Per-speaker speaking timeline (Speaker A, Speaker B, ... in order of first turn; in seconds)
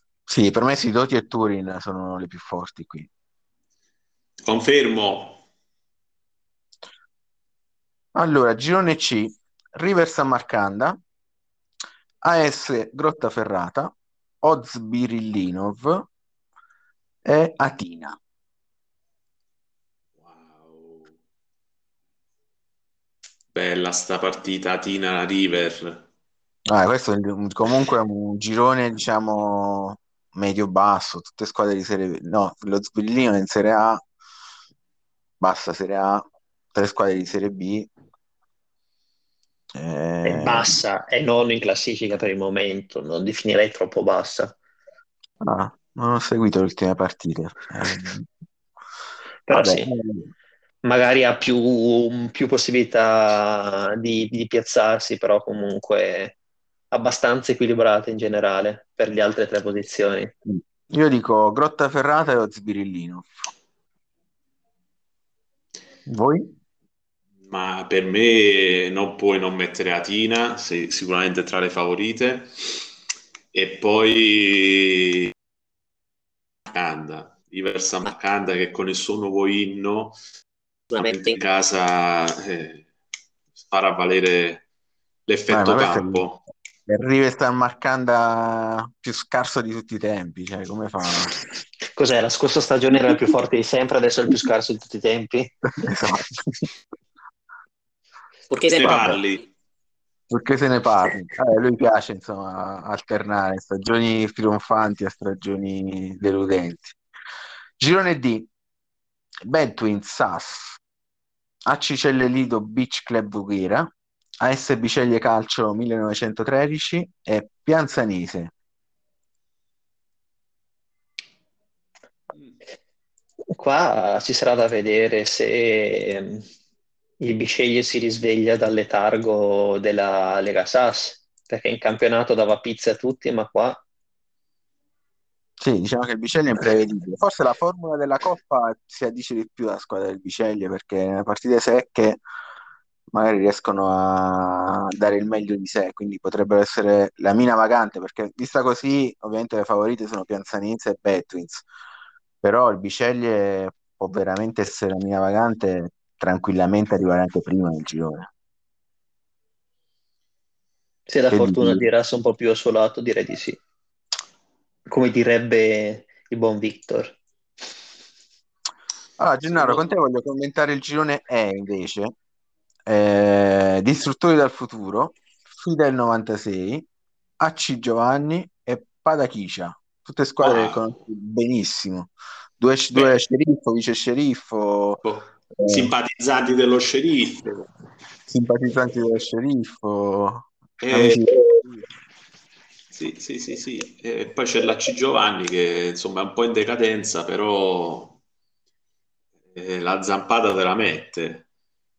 Speaker A: 0.3-3.1, 8.2-11.0, 12.2-16.1, 17.3-18.2, 26.7-34.0, 35.4-37.9, 39.8-40.8, 45.4-48.3, 49.5-50.3, 60.5-63.5, 66.1-66.5, 85.5-86.2, 86.9-91.3, 95.8-96.4, 98.8-99.2, 100.3-107.0, 107.8-108.5, 109.5-110.8, 111.7-113.9, 114.4-118.5, 135.6-142.2, 143.1-151.7, 152.4-158.3, 161.3-161.9, 169.2-172.1, 172.9-176.9, 177.4-185.0, 185.6-185.9, 188.3-191.8
Speaker B: 4.4-5.4, 20.2-21.1, 23.5-26.1, 67.4-72.5, 73.5-75.3, 76.7-80.2, 80.9-82.9, 83.6-84.7, 85.3-86.4, 98.6-99.5, 169.6-169.8, 180.4-181.0, 185.0-187.7, 190.8-191.2, 192.9-198.2, 199.5-201.5
Speaker C: 40.2-44.5, 49.5-49.9, 50.9-56.4, 56.9-60.3, 92.0-95.5, 123.5-126.5, 127.2-133.8, 161.1-163.6, 164.9-167.2